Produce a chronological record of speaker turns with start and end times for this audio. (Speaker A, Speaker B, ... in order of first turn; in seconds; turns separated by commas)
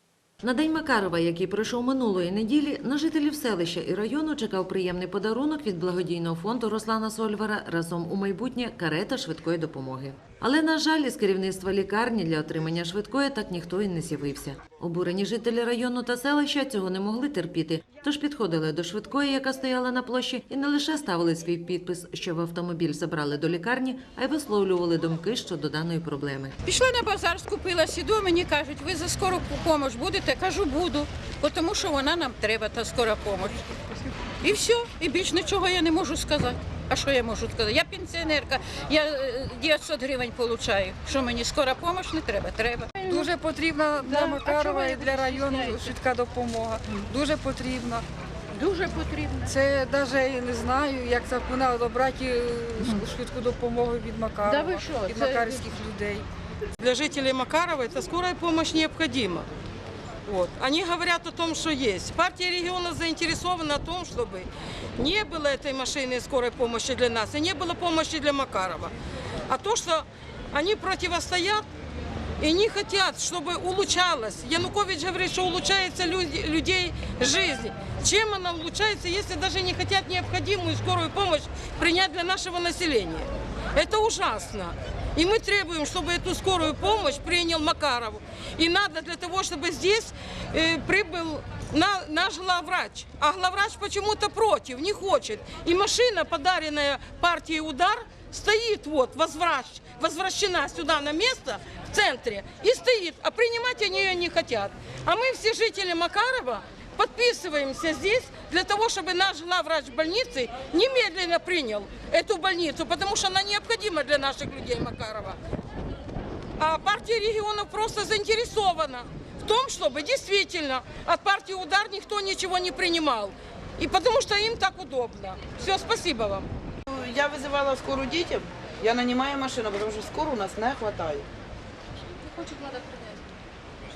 Speaker A: 0.4-26.6, Speaker B: 26.6-33.6, Speaker B: 34.4-43.3, Speaker C: 43.1-48.0, Speaker B: 44.0-45.9, Speaker D: 44.5-45.0, Speaker B: 48.5-49.5, Speaker C: 49.5-56.2, Speaker B: 54.4-55.6, Speaker D: 56.8-59.5, Speaker D: 60.2-68.9, Speaker D: 69.5-71.7, Speaker D: 72.4-115.4, Speaker D: 116.6-126.5, Speaker E: 126.9-131.2